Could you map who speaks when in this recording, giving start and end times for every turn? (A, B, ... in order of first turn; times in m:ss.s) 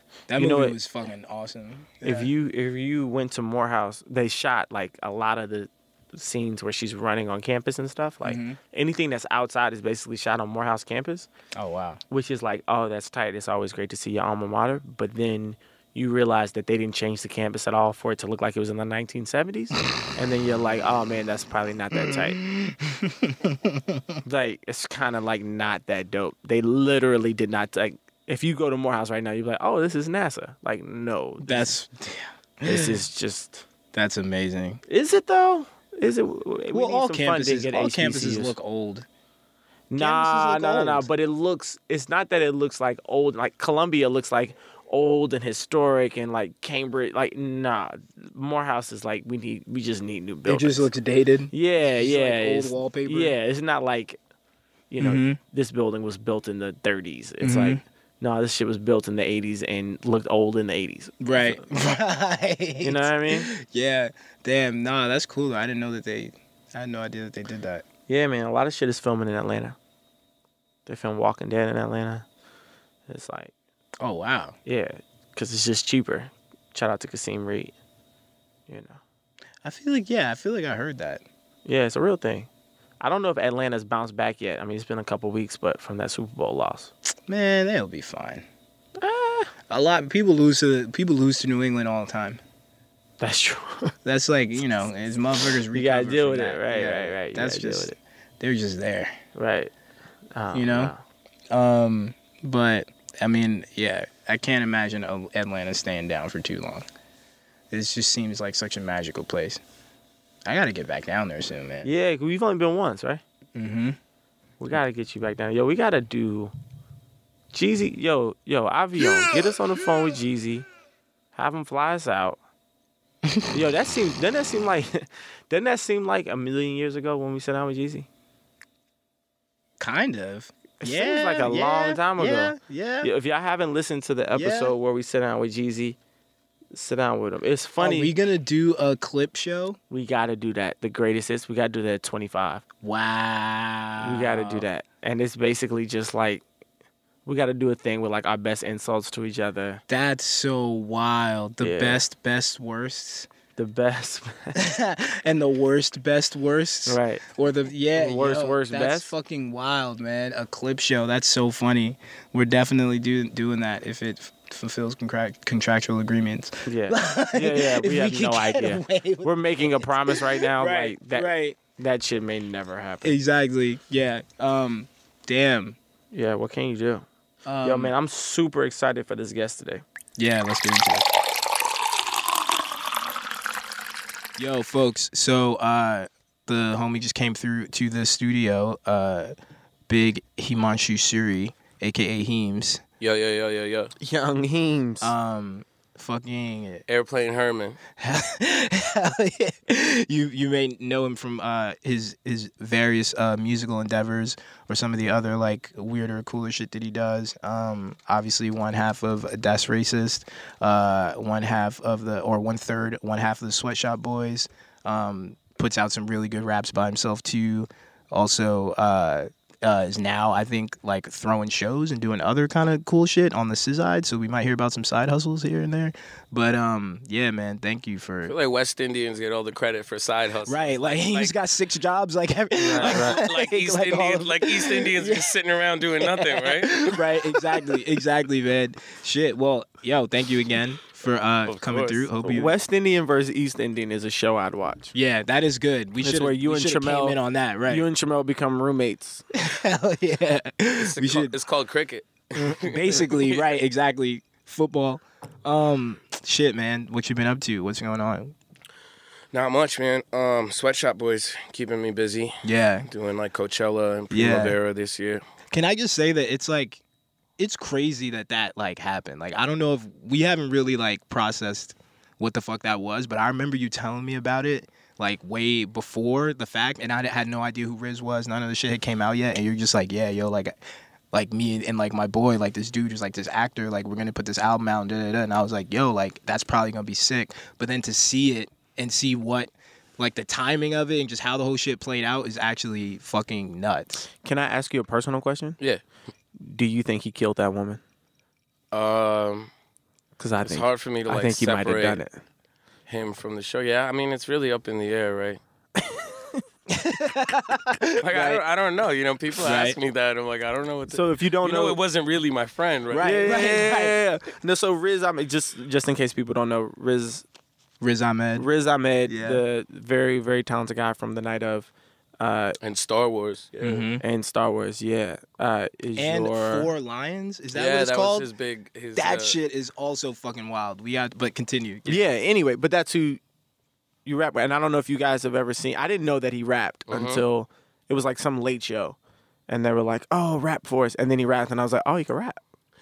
0:00.3-0:02.3 A
0:00.4-0:00.8 B
0:02.0-0:11.3 B
0:08.2-0:08.6 A
0:11.6-0:12.0 A
0:12.1-0:22.4 B
0:21.9-0:24.2 A
0:24.2-0:31.7 B
0:31.4-0:32.9 A
0:32.7-0:33.6 B
0:33.9-0:34.8 A
0:34.9-0:38.6 B
0:36.7-0:39.1 A
0:39.9-0:50.9 B
0:40.0-0:41.1 A
0:50.5-0:53.3 A
0:51.5-0:54.2 B
0:54.9-1:01.6 B
0:55.0-0:55.4 A
0:57.4-0:57.8 A
1:01.2-1:07.8 A
1:02.8-1:03.5 B
1:08.1-1:09.8 B
1:10.9-1:12.2 B
1:13.1-1:13.5 B
1:14.0-1:14.6 A
1:14.7-1:17.7 B
1:18.7-1:19.0 B
1:19.6-1:21.2 A
1:21.6-1:22.5 B
1:23.0-1:26.9 B
1:27.3-1:28.4 A
1:29.0-1:29.5 B
1:29.7-1:32.4 A
1:33.2-1:33.9 B
1:34.0-1:39.2 A
1:35.7-1:38.0 B
1:39.4-1:39.7 B
1:40.4-1:41.0 B
1:40.5-1:40.9 A
1:41.5-1:46.9 A
1:47.7-1:49.6 A
1:50.5-1:51.9 A
1:51.8-1:53.2 B
1:53.6-1:54.0 A
1:54.6-1:56.5 B
1:57.5-2:00.7 B
2:01.4-2:02.4 B
2:03.3-2:03.5 A
2:03.5-2:08.1 B
2:09.8-2:13.1 A
2:10.8-2:16.0 B
2:14.3-2:14.7 A
2:16.7-2:18.1 B
2:17.8-2:19.8 A
2:19.9-2:22.6 B
2:22.8-2:24.7 A
2:24.0-2:26.4 B
2:27.2-2:29.8 B
2:29.9-2:33.3 A
2:31.6-2:32.0 B
2:33.6-2:34.6 B
2:34.6-2:51.6 A
2:36.9-2:37.2 B
2:38.0-2:39.1 B
2:46.7-2:53.2 B
2:53.0-2:55.8 A
2:56.1-2:57.1 B
2:57.5-2:57.9 A
2:57.6-2:59.8 B
3:00.2-3:01.1 A
3:04.4-3:09.3 A
3:09.9-3:12.8 A
3:13.0-3:13.9 C
3:14.0-3:15.1 B
3:15.0-3:16.8 A
3:16.9-3:17.8 C
3:18.0-3:48.3 A
3:48.2-3:51.3 C
3:50.5-3:55.3 A
3:52.6-3:53.2 B
3:52.8-3:57.4 C
3:56.0-4:02.5 A
4:01.5-4:02.4 C
4:02.3-4:04.9 B
4:04.9-4:07.8 A
4:06.0-4:09.2 B
4:09.3-4:11.3 A
4:10.8-4:13.5 C
4:12.5-4:18.4 A
4:19.3-4:25.2 C
4:22.4-4:22.9 A
4:24.1-4:24.6 A
4:25.5-4:26.8 A
4:27.4-4:40.6 A
4:41.1-4:54.1 A
4:54.2-4:55.6 B
4:56.4-4:57.8 B
4:58.7-4:59.5 C
5:00.2-5:02.2 B
5:00.4-5:02.0 C
5:02.9-5:05.4 C
5:06.7-5:08.4 A
5:08.0-5:13.9 C
5:09.4-5:09.8 A
5:10.9-5:11.8 B
5:12.9-5:14.0 A
5:13.0-5:17.2 B
5:17.8-5:18.5 A
5:18.4-5:22.6 B
5:19.1-5:19.4 A
5:22.6-5:23.8 C
5:23.6-5:24.0 A
5:24.0-5:26.7 B
5:26.0-5:28.3 A
5:27.5-5:29.4 C
5:29.0-5:32.1 A
5:31.9-5:33.2 B
5:34.0-5:39.0 B
5:36.9-5:37.2 C
5:39.5-5:42.4 B